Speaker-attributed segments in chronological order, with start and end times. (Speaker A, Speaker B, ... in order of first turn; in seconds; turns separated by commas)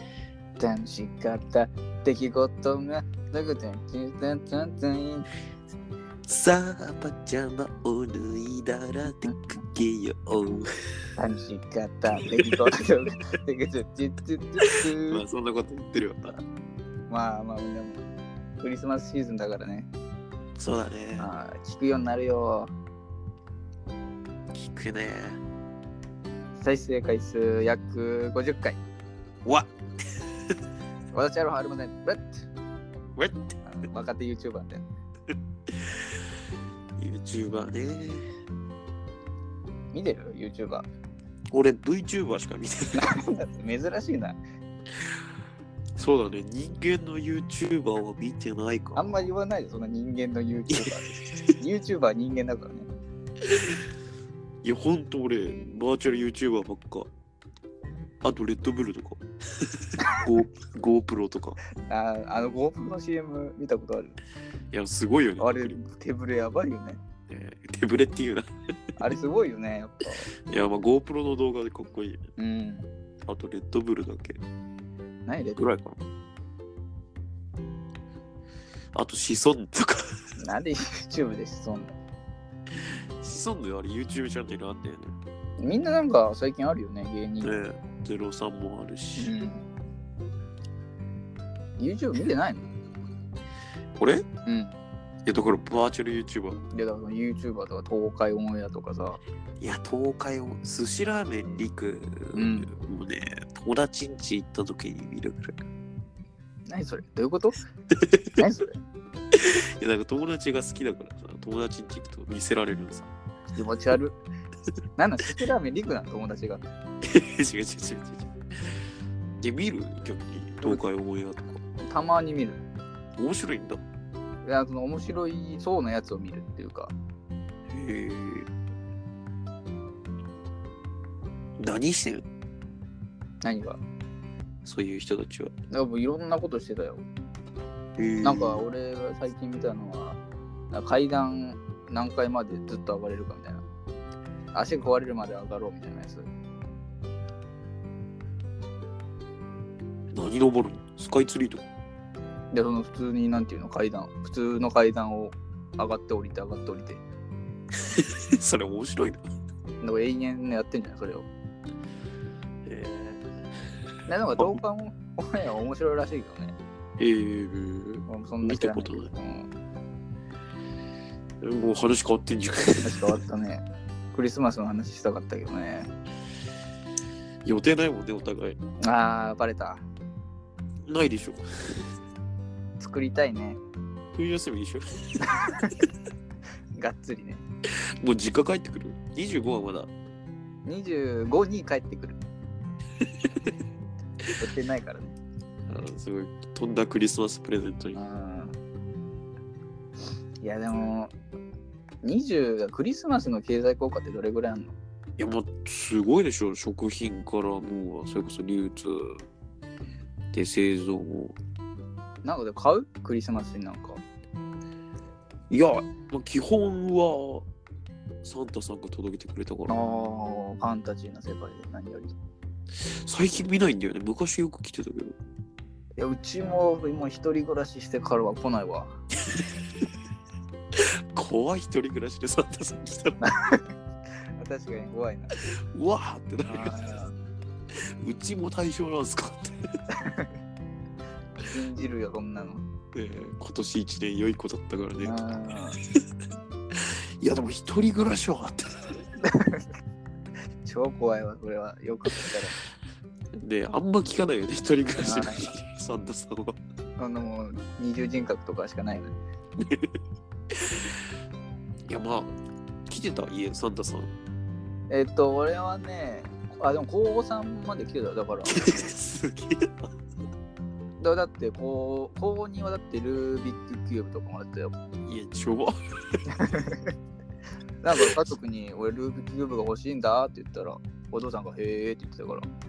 Speaker A: 0.6-5.3, Speaker B: 6.3-10.7, Speaker A: 9.1-9.3, Speaker A: 11.2-15.2, Speaker B: 12.2-12.6, Speaker B: 14.6-16.4, Speaker A: 17.1-18.0, Speaker A: 18.6-19.9, Speaker B: 20.6-21.3, Speaker A: 21.2-22.7, Speaker B: 24.5-25.4, Speaker A: 26.6-28.8, Speaker B: 29.4-29.7, Speaker A: 31.1-32.5, Speaker B: 33.2-33.5, Speaker A: 33.6-34.9, Speaker B: 37.0-38.3, Speaker A: 39.9-40.9, Speaker B: 41.5-43.1, Speaker A: 42.9-44.4, Speaker B: 46.0-49.2, Speaker A: 49.0-52.9, Speaker B: 50.7-51.5, Speaker B: 53.4-53.9, Speaker B: 54.6-57.1, Speaker B: 58.2-61.6, Speaker A: 61.8-64.2, Speaker B: 64.7-65.8, Speaker A: 65.4-67.0, Speaker B: 67.3-68.5, Speaker A: 69.0-70.3, Speaker B: 70.5-72.2, Speaker A: 72.4-72.9, Speaker B: 73.3-74.4, Speaker A: 75.3-75.6, Speaker B: 75.6-76.0, Speaker B: 79.0-80.0, Speaker A: 80.4-82.0, Speaker B: 82.8-85.2, Speaker A: 85.6-87.5, Speaker B: 87.4-89.3, Speaker A: 89.2-89.7, Speaker A: 91.8-92.7, Speaker B: 94.0-94.3, Speaker A: 94.5-94.8, Speaker B: 95.3-96.6, Speaker A: 96.7-99.2, Speaker B: 99.6-105.6, Speaker A: 102.3-102.7, Speaker A: 106.7-107.6, Speaker B: 107.9-108.4, Speaker A: 108.4-108.8, Speaker B: 109.3-113.1, Speaker A: 113.5-114.2, Speaker A: 115.0-116.6, Speaker B: 117.0-118.8, Speaker B: 119.4-121.6, Speaker A: 120.6-120.9, Speaker A: 121.9-122.6, Speaker B: 123.2-123.8, Speaker A: 124.4-126.9, Speaker B: 127.7-128.5, Speaker B: 131.6-132.2, Speaker A: 133.4-133.8, Speaker B: 134.6-135.5, Speaker A: 135.7-137.1, Speaker B: 138.0-138.6, Speaker A: 138.2-140.2, Speaker A: 140.7-143.7, Speaker A: 144.5-146.3, Speaker B: 150.1-151.7, Speaker A: 152.5-157.0, Speaker B: 157.8-159.2, Speaker A: 159.8-161.3, Speaker B: 162.7-163.3, Speaker A: 164.1-166.6, Speaker B: 167.0-169.1, Speaker A: 168.1-169.5, Speaker B: 171.4-173.2, Speaker A: 172.8-175.9, Speaker B: 177.4-178.6, Speaker A: 178.8-179.8, Speaker B: 180.9-181.9, Speaker A: 182.8-183.6, Speaker B: 184.1-185.7, Speaker A: 185.3-185.8, Speaker A: 186.8-187.4, Speaker B: 188.0-189.9, Speaker A: 190.7-192.2, Speaker B: 193.0-193.6, Speaker A: 194.4-195.2, Speaker B: 195.7-198.0, Speaker A: 197.9-198.6, Speaker A: 200.4-201.2, Speaker A: 202.0-204.8, Speaker B: 205.2-209.2, Speaker B: 210.3-211.4, Speaker A: 212.2-214.0, Speaker B: 215.5-217.5, Speaker B: 218.2-219.8, Speaker A: 219.7-222.2, Speaker B: 222.8-225.2, Speaker A: 226.0-229.0, Speaker B: 230.8-233.3, Speaker A: 233.2-233.7, Speaker A: 234.4-235.3, Speaker B: 235.7-236.8, Speaker A: 236.5-237.2, Speaker B: 238.0-239.7, Speaker A: 239.9-240.3, Speaker A: 241.4-242.7, Speaker B: 242.9-245.2, Speaker A: 245.0-245.8, Speaker B: 246.7-249.1, Speaker A: 249.2-249.7, Speaker A: 250.6-252.6, Speaker B: 253.4-256.6, Speaker A: 255.0-255.5, Speaker A: 257.0-259.2, Speaker B: 259.6-260.0, Speaker B: 260.6-260.9, Speaker B: 261.9-262.4, Speaker B: 262.9-264.1, Speaker A: 264.9-268.8, Speaker B: 268.5-269.9, Speaker A: 271.0-274.7, Speaker B: 275.1-276.2, Speaker A: 276.3-276.9, Speaker A: 277.8-282.5